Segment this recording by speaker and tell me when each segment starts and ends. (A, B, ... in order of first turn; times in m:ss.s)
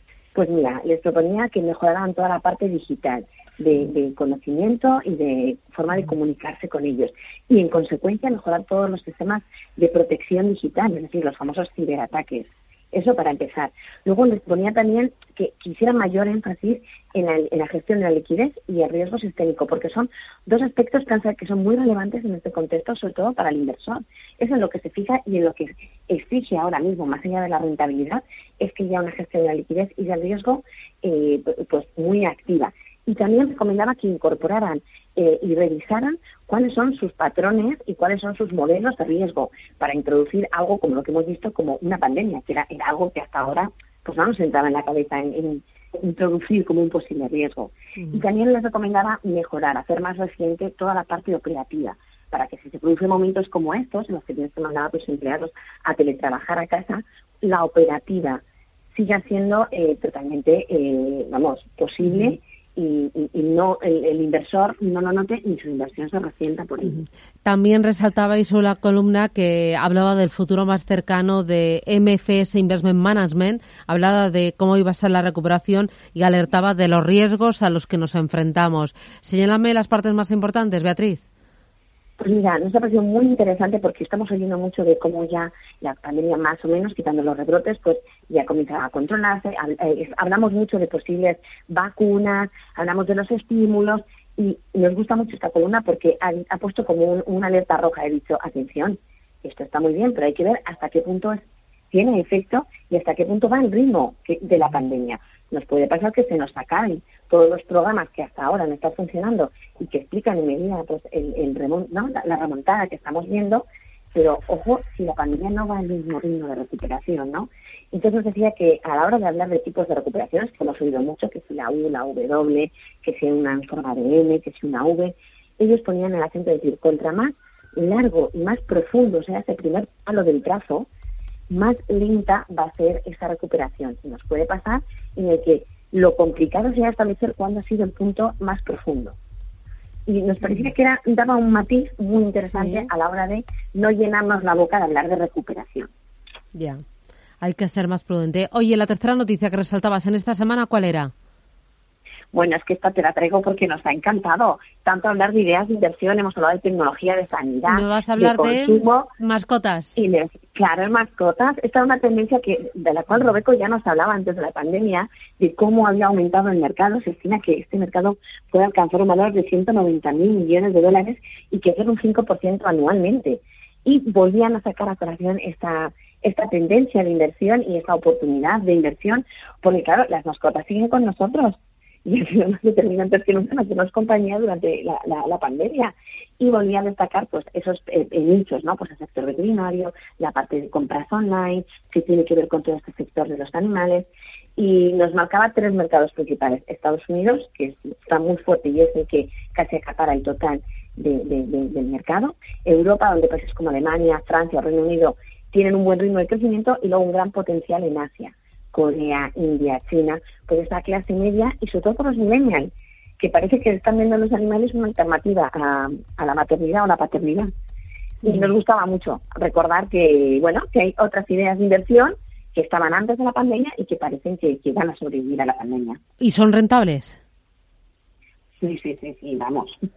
0:00.3-0:58.4 A
0:58.9-1:07.0 A
1:07.4-1:21.2 B
1:22.2-1:41.4 A
1:41.9-2:10.9 A
2:11.5-2:19.1 A
2:20.1-2:25.9 A
2:22.5-2:22.8 B
2:26.5-2:26.8 B
2:27.4-2:31.1 B
2:32.3-2:39.1 A
2:37.7-2:40.0 B
2:40.0-3:37.5 A
3:38.2-3:46.0 A
3:46.2-3:47.2 B
3:48.6-3:49.8 A